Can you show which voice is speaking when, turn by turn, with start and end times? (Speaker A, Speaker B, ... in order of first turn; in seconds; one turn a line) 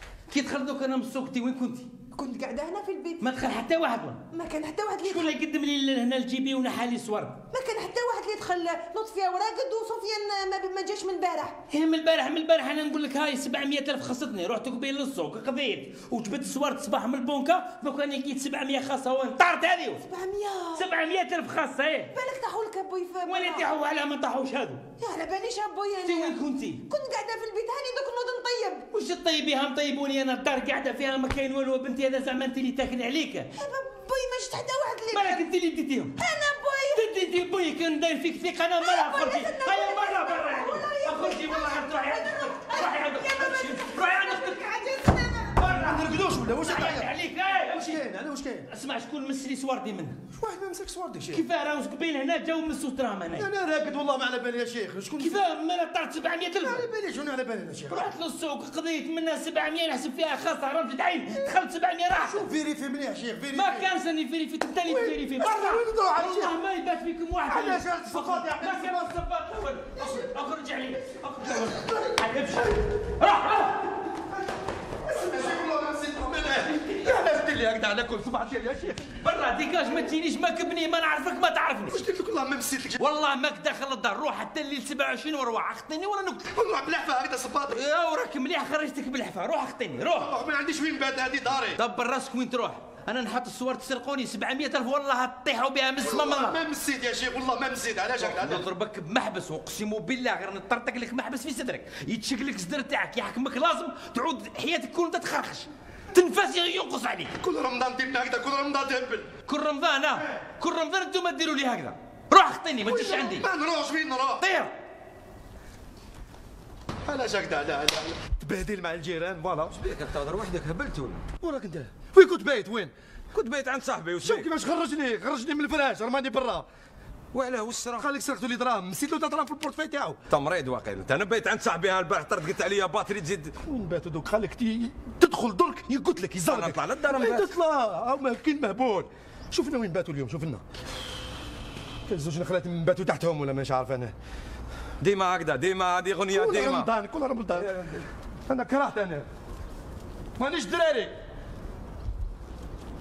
Speaker A: 0.3-1.9
Speaker B: 2.1-3.2
Speaker A: 3.2-4.2
Speaker B: 4.3-5.2
Speaker A: 5.0-7.4
Speaker B: 7.5-11.5
Speaker A: 11.7-20.0
Speaker B: 20.0-20.8
Speaker A: 20.7-22.1
Speaker B: 22.1-23.6
Speaker A: 23.2-24.8
Speaker B: 25.0-26.4
Speaker A: 26.0-26.8
Speaker B: 26.9-28.9
Speaker A: 28.9-33.5
Speaker B: 33.6-35.4
Speaker A: 35.1-36.1
Speaker B: 36.2-37.0
Speaker A: 36.9-44.8
Speaker B: 39.0-45.6
Speaker A: 45.6-48.0
Speaker C: 45.6-47.1
Speaker C: 47.7-48.6
Speaker A: 48.7-50.2
Speaker C: 50.4-51.4
Speaker A: 51.3-53.5
Speaker C: 53.3-55.4
Speaker A: 55.2-56.9
Speaker C: 56.6-58.1
Speaker A: 57.9-62.5
Speaker C: 62.2-63.9
Speaker A: 63.5-73.8
Speaker C: 64.9-66.5
Speaker C: 67.5-69.1
Speaker C: 71.6-72.0
Speaker C: 75.1-79.0
Speaker A: 79.1-82.0
Speaker C: 81.9-83.0
Speaker A: 83.0-86.6
Speaker C: 86.5-87.8
Speaker A: 87.6-90.3
Speaker C: 90.2-91.8
Speaker A: 91.7-96.6
Speaker C: 96.0-98.6
Speaker A: 98.2-107.3
Speaker C: 107.4-109.3
Speaker A: 109.4-113.5
Speaker C: 112.8-114.4
Speaker A: 114.4-114.7
Speaker C: 117.0-119.7
Speaker D: 119.7-121.2
Speaker C: 121.4-122.9
Speaker D: 123.3-124.5
Speaker C: 124.2-126.6
Speaker D: 127.3-128.1
Speaker C: 128.0-130.2
Speaker D: 130.3-133.6
Speaker C: 133.6-140.6
Speaker D: 136.3-137.5
Speaker C: 142.1-144.1
Speaker D: 145.0-146.9
Speaker C: 146.3-147.7
Speaker D: 147.5-148.0
Speaker C: 148.5-149.2
Speaker C: 150.4-151.1